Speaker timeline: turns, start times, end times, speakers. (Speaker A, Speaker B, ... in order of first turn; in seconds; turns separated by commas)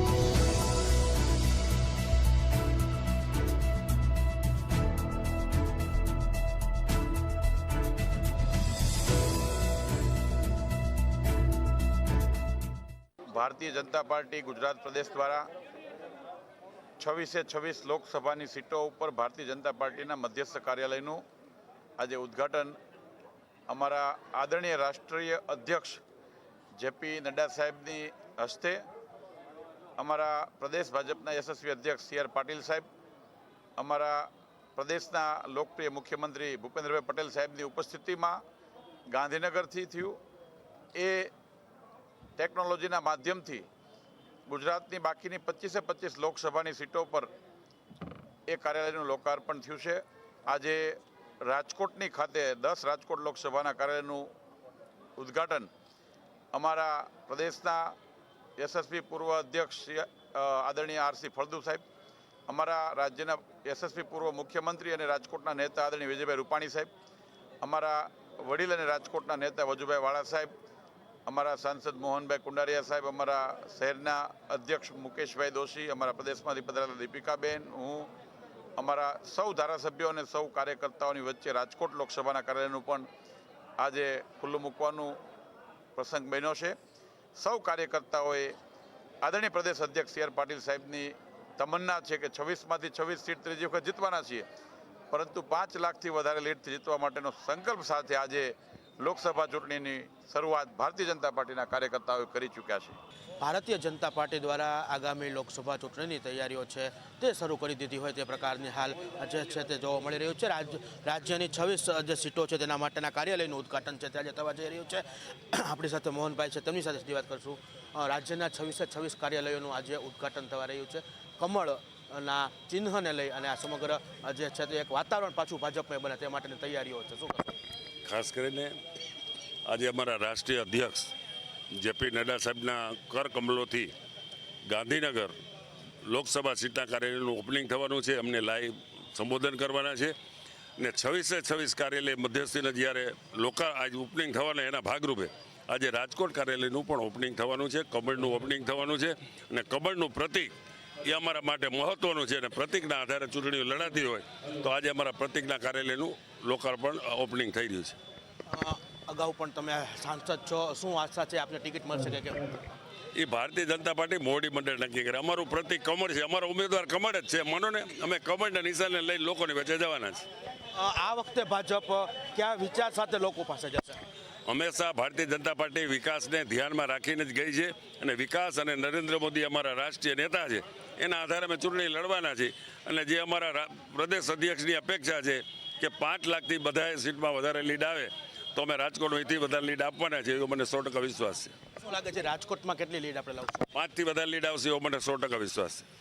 Speaker A: 13.3-15.4, Speaker A: 17.0-21.2, Speaker A: 22.0-22.8, Speaker A: 23.7-26.0, Speaker A: 26.8-28.8, Speaker A: 30.0-32.9, Speaker A: 33.8-38.4, Speaker A: 39.1-40.2, Speaker A: 40.9-41.3, Speaker A: 42.4-43.7, Speaker A: 44.5-47.3, Speaker A: 48.5-54.3, Speaker A: 55.2-55.7, Speaker A: 56.5-58.0, Speaker A: 58.6-61.8, Speaker A: 62.5-66.9, Speaker A: 67.6-70.5, Speaker A: 71.3-78.1, Speaker A: 78.8-83.1, Speaker A: 83.8-85.2, Speaker A: 86.0-86.8, Speaker A: 87.3-88.6, Speaker A: 89.2-94.4, Speaker A: 95.1-103.0, Speaker B: 103.4-127.5, Speaker C: 128.0-128.8, Speaker C: 129.7-131.1, Speaker C: 131.7-133.9, Speaker C: 134.7-135.3, Speaker C: 136.1-140.1, Speaker C: 140.8-150.5, Speaker C: 151.0-158.0, Speaker B: 158.5-162.7, Speaker C: 163.2-170.3, Speaker B: 170.7-174.0, Speaker C: 174.5-191.5, Speaker B: 191.8-193.7, Speaker C: 193.7-195.8